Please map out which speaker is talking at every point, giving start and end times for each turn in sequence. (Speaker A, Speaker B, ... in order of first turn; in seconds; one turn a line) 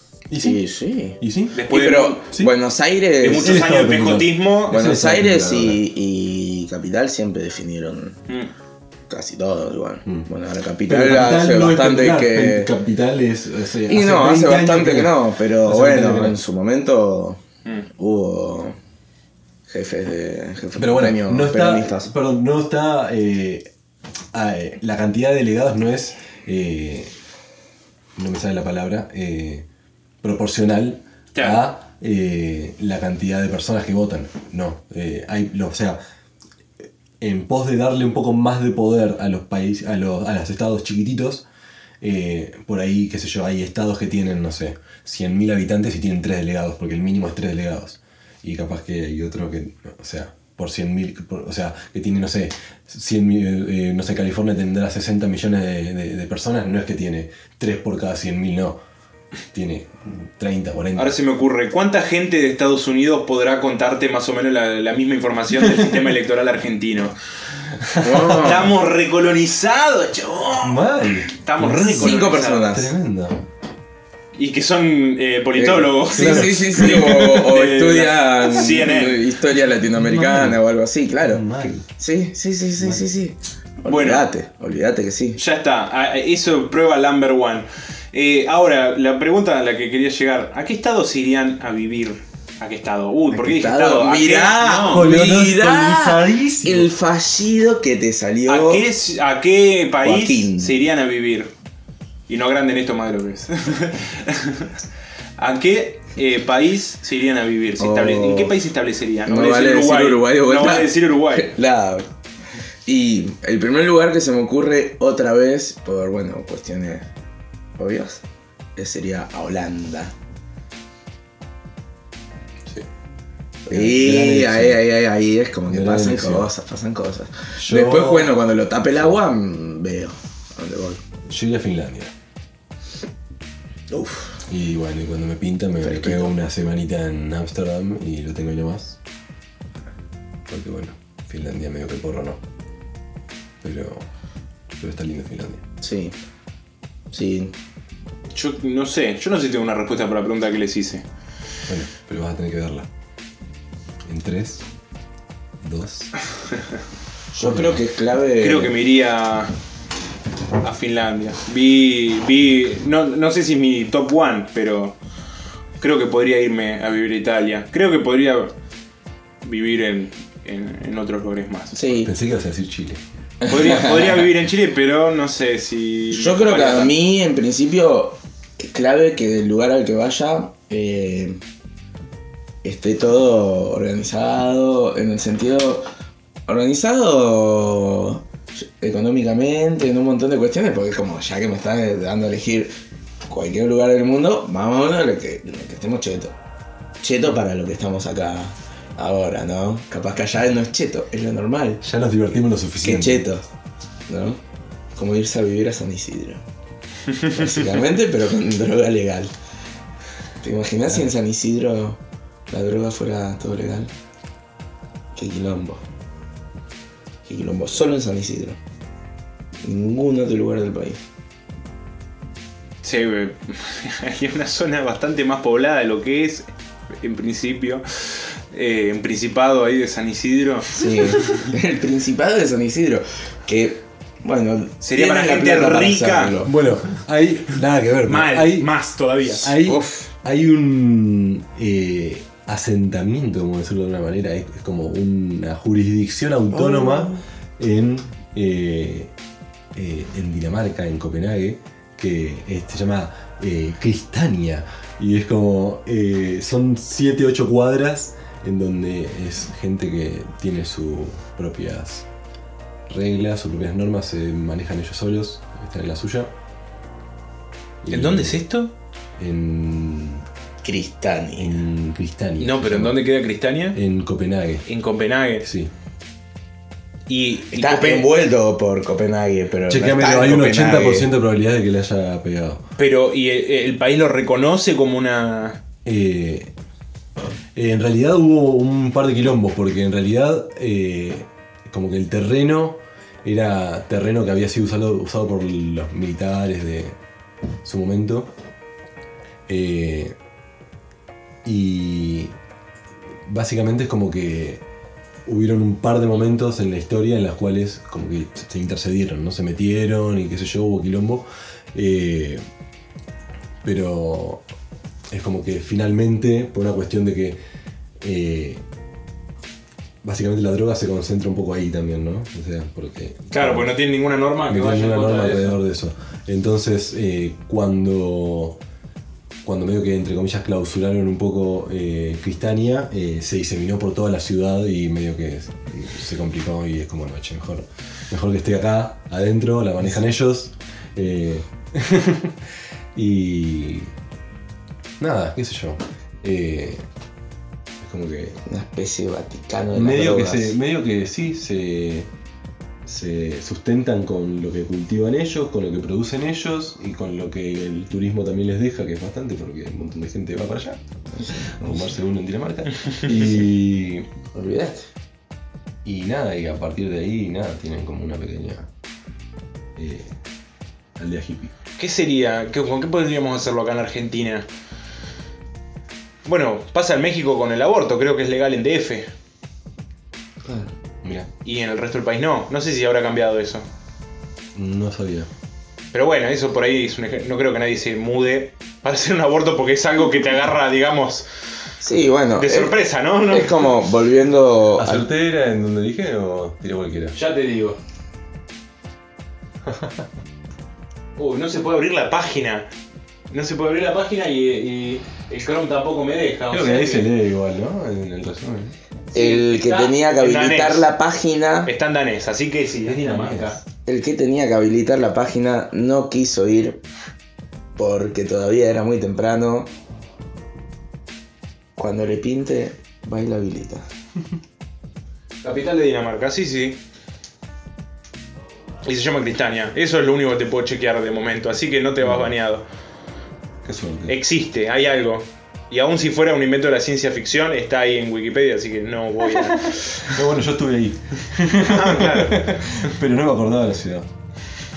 Speaker A: 0.3-0.6
Speaker B: 0.4-3.6
Speaker A: 1.2-1.7
Speaker C: 1.6-2.3
Speaker C: 3.2-4.8
Speaker A: 3.2-5.8
Speaker B: 4.7-8.2
Speaker B: 9.1-12.7
Speaker A: 10.9-16.4
Speaker B: 13.9-17.4
Speaker B: 18.0-18.8
Speaker B: 19.7-22.1
Speaker A: 20.8-23.7
Speaker A: 24.3-27.1
Speaker A: 28.2-29.7
Speaker A: 30.2-36.0
Speaker C: 31.3-31.6
Speaker A: 37.2-41.5
Speaker A: 42.0-58.8
Speaker A: 59.5-61.2
Speaker C: 61.0-67.2
Speaker A: 65.6-66.0
Speaker A: 68.0-68.7
Speaker B: 68.0-68.7
Speaker C: 68.3-72.7
Speaker A: 70.6-73.4
Speaker B: 71.9-72.9
Speaker C: 74.4-79.2
Speaker B: 75.6-81.4
Speaker A: 76.1-77.0
Speaker A: 79.9-80.6
Speaker A: 81.2-81.9
Speaker B: 82.0-85.4
Speaker A: 82.8-83.1
Speaker C: 83.9-84.3
Speaker C: 85.4-95.2
Speaker B: 93.3-98.8
Speaker A: 94.9-96.9
Speaker C: 98.5-101.5
Speaker B: 100.0-100.8
Speaker C: 102.3-104.7
Speaker C: 105.4-111.5
Speaker B: 107.8-108.5
Speaker B: 109.2-112.1
Speaker B: 112.9-117.1
Speaker B: 117.8-118.2
Speaker B: 118.8-120.1
Speaker B: 123.7-131.0
Speaker A: 123.7-124.8
Speaker A: 125.7-126.5
Speaker A: 127.6-129.2
Speaker A: 131.3-132.1
Speaker B: 133.9-134.4
Speaker A: 134.5-139.0
Speaker B: 135.8-136.4
Speaker A: 140.5-142.4
Speaker A: 143.6-144.1
Speaker A: 144.7-145.6
Speaker B: 145.8-146.2
Speaker B: 147.1-147.5
Speaker C: 148.3-151.0
Speaker A: 151.7-152.9
Speaker A: 154.1-154.7
Speaker A: 155.6-156.1
Speaker B: 157.3-158.7
Speaker A: 157.5-157.8
Speaker C: 158.4-159.5
Speaker C: 160.6-165.0
Speaker C: 165.8-168.5
Speaker C: 169.4-171.8
Speaker B: 171.7-172.1
Speaker A: 172.0-173.0
Speaker B: 173.4-174.2
Speaker C: 173.5-176.9
Speaker B: 176.1-181.4
Speaker B: 182.6-185.9
Speaker B: 186.5-192.7
Speaker B: 193.3-196.3
Speaker B: 197.0-201.8
Speaker A: 201.8-203.3
Speaker B: 202.8-203.4
Speaker B: 204.1-204.4
Speaker B: 204.9-206.4
Speaker B: 207.3-209.3
Speaker B: 210.4-213.9
Speaker B: 215.2-215.8
Speaker B: 217.3-218.6
Speaker B: 219.6-221.0
Speaker C: 222.8-231.5
Speaker B: 230.7-236.5
Speaker C: 234.8-236.4
Speaker A: 236.4-238.7
Speaker C: 238.0-239.6
Speaker A: 239.3-249.1
Speaker B: 239.6-240.1
Speaker B: 246.5-247.2
Speaker A: 249.8-262.1
Speaker A: 262.9-266.3
Speaker A: 267.8-268.4
Speaker C: 267.9-268.7
Speaker A: 269.2-270.2
Speaker B: 270.6-271.6
Speaker A: 271.4-273.0
Speaker C: 272.4-273.8
Speaker A: 273.7-274.6
Speaker C: 274.7-275.4
Speaker A: 275.4-275.7
Speaker C: 277.1-278.1
Speaker B: 277.5-281.1
Speaker A: 279.7-282.6
Speaker C: 282.8-285.6
Speaker A: 285.9-286.5
Speaker A: 287.6-297.0
Speaker A: 297.6-298.3
Speaker A: 299.5-300.1
Speaker A: 301.4-302.3
Speaker A: 303.3-304.6
Speaker A: 305.3-312.4
Speaker A: 313.6-314.4
Speaker A: 315.1-317.4
Speaker A: 318.0-318.6
Speaker A: 320.0-323.7
Speaker C: 323.3-325.6
Speaker A: 324.5-328.6
Speaker A: 329.4-342.4
Speaker A: 342.9-343.9
Speaker A: 345.0-346.8
Speaker A: 347.8-348.4
Speaker B: 348.4-350.6
Speaker A: 349.8-352.1
Speaker A: 352.9-360.8
Speaker B: 361.1-361.9
Speaker A: 361.4-364.1
Speaker B: 364.3-364.9
Speaker A: 365.9-368.7
Speaker A: 369.8-370.2
Speaker A: 371.0-371.5
Speaker C: 371.8-374.5
Speaker C: 376.2-379.1
Speaker B: 380.4-380.7
Speaker A: 381.0-381.3
Speaker C: 381.4-383.7
Speaker A: 384.6-385.3
Speaker C: 385.9-391.3
Speaker B: 391.8-395.1
Speaker C: 392.4-393.8
Speaker A: 394.8-397.1
Speaker C: 397.1-397.8
Speaker A: 399.7-400.1
Speaker C: 401.2-402.7
Speaker C: 403.3-407.1
Speaker A: 406.5-408.7
Speaker C: 409.1-410.9
Speaker B: 409.1-411.7
Speaker C: 411.7-413.6
Speaker A: 412.9-413.6
Speaker B: 413.9-416.8
Speaker B: 417.8-419.7
Speaker B: 421.8-423.8
Speaker C: 425.4-426.8
Speaker C: 428.8-432.6
Speaker A: 432.0-432.3
Speaker A: 433.6-434.2
Speaker C: 434.1-440.1
Speaker A: 439.4-444.1
Speaker C: 441.6-442.9